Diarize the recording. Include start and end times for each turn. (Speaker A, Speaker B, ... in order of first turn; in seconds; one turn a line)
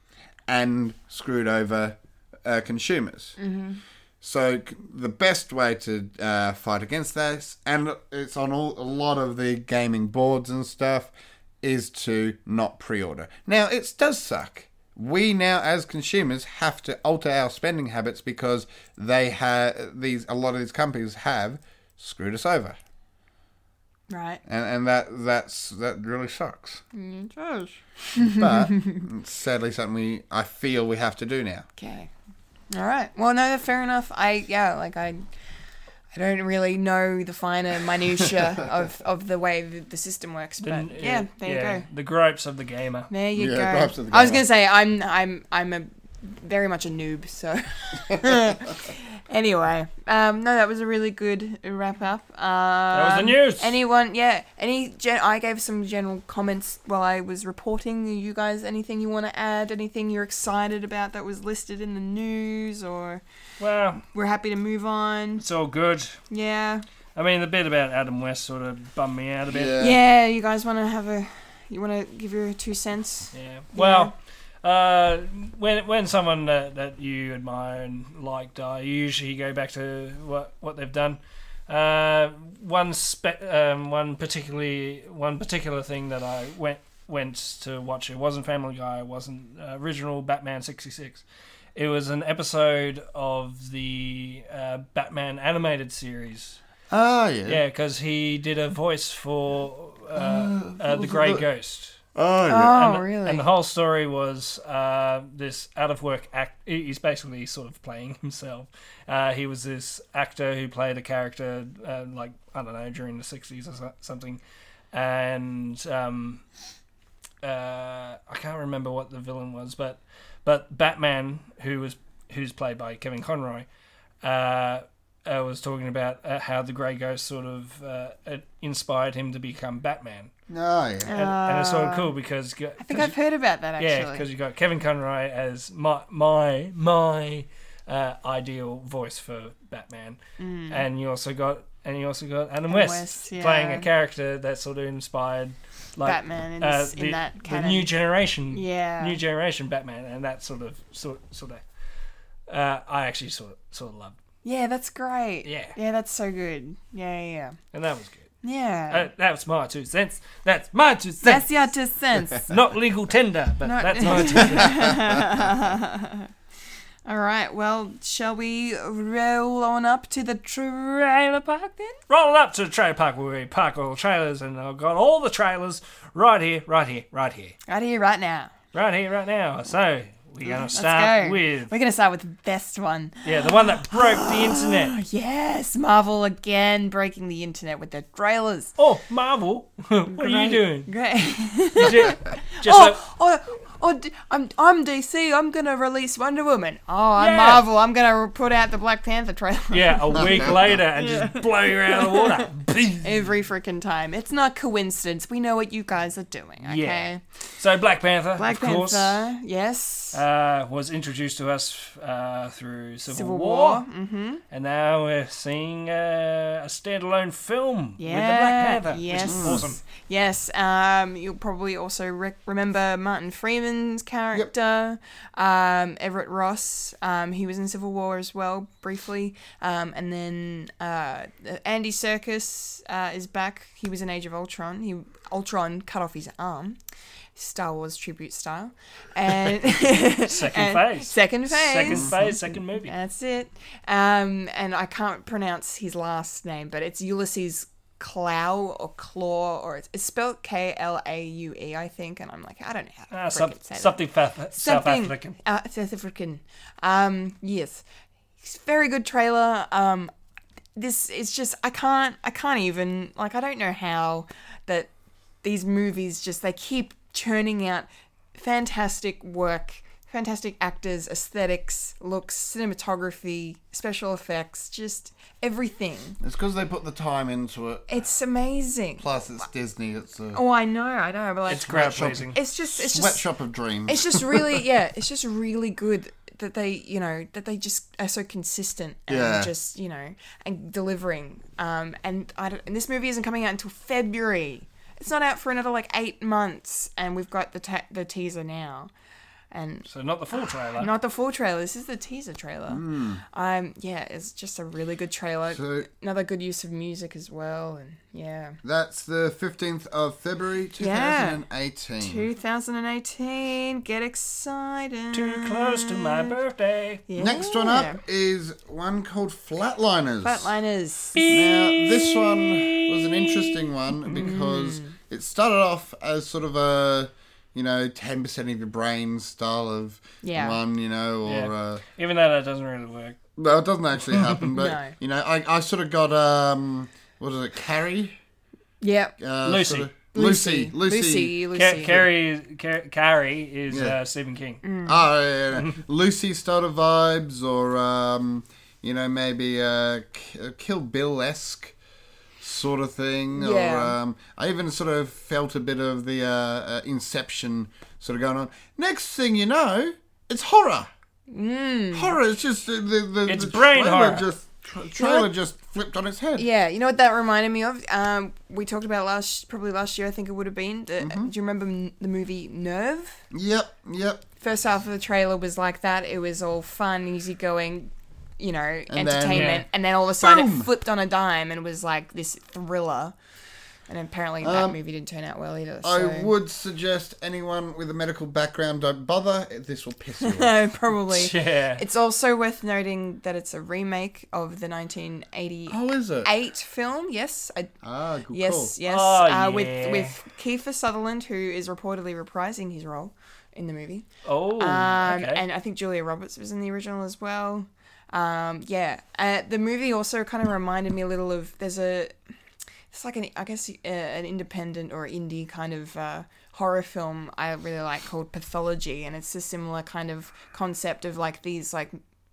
Speaker A: 0.5-3.4
Speaker B: 3.4-3.8
Speaker A: 4.2-22.8
Speaker B: 24.1-24.4
Speaker A: 24.5-26.8
Speaker B: 26.9-29.0
Speaker A: 28.2-31.7
Speaker B: 31.8-32.1
Speaker B: 32.7-35.3
Speaker B: 36.1-41.9
Speaker C: 40.6-43.1
Speaker B: 43.1-63.2
Speaker A: 43.4-44.5
Speaker C: 52.9-53.8
Speaker C: 63.6-64.0
Speaker B: 64.1-65.4
Speaker C: 65.4-66.2
Speaker B: 66.3-66.8
Speaker C: 67.2-69.8
Speaker A: 69.5-70.0
Speaker B: 69.8-74.1
Speaker C: 73.3-91.2
Speaker C: 91.8-96.6
Speaker A: 96.9-97.6
Speaker C: 97.5-102.0
Speaker A: 100.2-101.5
Speaker A: 102.2-102.8
Speaker B: 102.5-103.5
Speaker C: 102.7-114.4
Speaker C: 114.9-116.4
Speaker C: 117.4-123.7
Speaker C: 124.2-130.3
Speaker A: 130.5-131.1
Speaker B: 131.0-132.1
Speaker C: 131.1-133.2
Speaker B: 132.8-134.2
Speaker C: 133.8-140.2
Speaker B: 140.4-140.8
Speaker C: 140.7-151.6
Speaker B: 142.7-143.9
Speaker B: 146.0-147.9
Speaker B: 148.5-149.2
Speaker C: 152.5-154.2
Speaker B: 154.4-157.6
Speaker C: 155.4-155.8
Speaker C: 157.7-158.3
Speaker B: 158.4-159.1
Speaker C: 158.9-161.5
Speaker B: 161.2-162.5
Speaker C: 162.4-165.3
Speaker B: 163.6-166.3
Speaker B: 167.1-172.0
Speaker C: 172.1-177.6
Speaker B: 177.7-178.5
Speaker C: 178.7-181.7
Speaker B: 180.4-188.8
Speaker C: 183.2-185.0
Speaker C: 188.8-190.9
Speaker B: 190.1-207.2
Speaker C: 191.8-193.0
Speaker C: 197.2-197.6
Speaker C: 199.7-203.1
Speaker A: 200.2-200.7
Speaker C: 206.6-209.3
Speaker B: 208.4-210.2
Speaker C: 210.1-213.8
Speaker B: 213.1-214.4
Speaker C: 214.5-219.8
Speaker B: 218.0-236.8
Speaker A: 219.2-219.7
Speaker B: 237.3-242.3
Speaker C: 240.1-242.9
Speaker A: 241.9-242.4
Speaker B: 242.8-257.8
Speaker C: 253.1-255.4
Speaker B: 258.4-260.1
Speaker B: 260.8-264.9
Speaker B: 265.4-276.2
Speaker A: 276.2-277.9
Speaker B: 277.9-279.1
Speaker A: 279.0-280.4
Speaker B: 280.3-283.3
Speaker C: 281.5-282.4
Speaker A: 281.7-284.6
Speaker B: 283.9-298.9
Speaker A: 289.1-289.5
Speaker B: 299.5-308.6
Speaker C: 299.9-300.9
Speaker A: 302.7-303.2
Speaker A: 305.5-305.9
Speaker A: 308.6-312.3
Speaker B: 310.8-311.4
Speaker B: 312.0-316.4
Speaker C: 315.1-317.0
Speaker B: 317.1-318.0
Speaker A: 317.2-320.5
Speaker B: 320.2-321.3
Speaker C: 321.1-323.7
Speaker A: 321.3-331.8
Speaker B: 324.1-325.0
Speaker B: 330.2-330.6
Speaker C: 331.3-333.2
Speaker A: 333.4-338.1
Speaker C: 334.1-334.5
Speaker B: 334.6-334.9
Speaker B: 338.8-339.2
Speaker A: 339.2-341.4
Speaker C: 339.5-339.9
Speaker B: 340.1-342.1
Speaker C: 341.5-344.6
Speaker A: 343.7-344.0
Speaker B: 344.6-345.0
Speaker A: 344.9-351.8
Speaker A: 352.4-360.9
Speaker B: 353.3-354.0
Speaker B: 361.3-362.2
Speaker A: 361.9-366.4
Speaker C: 363.3-364.3
Speaker B: 365.0-365.3
Speaker B: 366.4-373.2
Speaker A: 371.0-371.3
Speaker A: 373.3-374.2
Speaker B: 374.4-383.1
Speaker A: 378.9-379.6
Speaker C: 379.3-379.6
Speaker A: 380.2-380.7
Speaker B: 383.9-386.3
Speaker A: 384.4-384.8
Speaker A: 385.8-390.6
Speaker B: 390.2-397.7
Speaker C: 391.1-391.8
Speaker A: 395.7-396.3
Speaker A: 397.8-398.7
Speaker B: 398.3-412.2
Speaker C: 398.9-400.2
Speaker C: 404.2-405.4
Speaker B: 412.9-422.0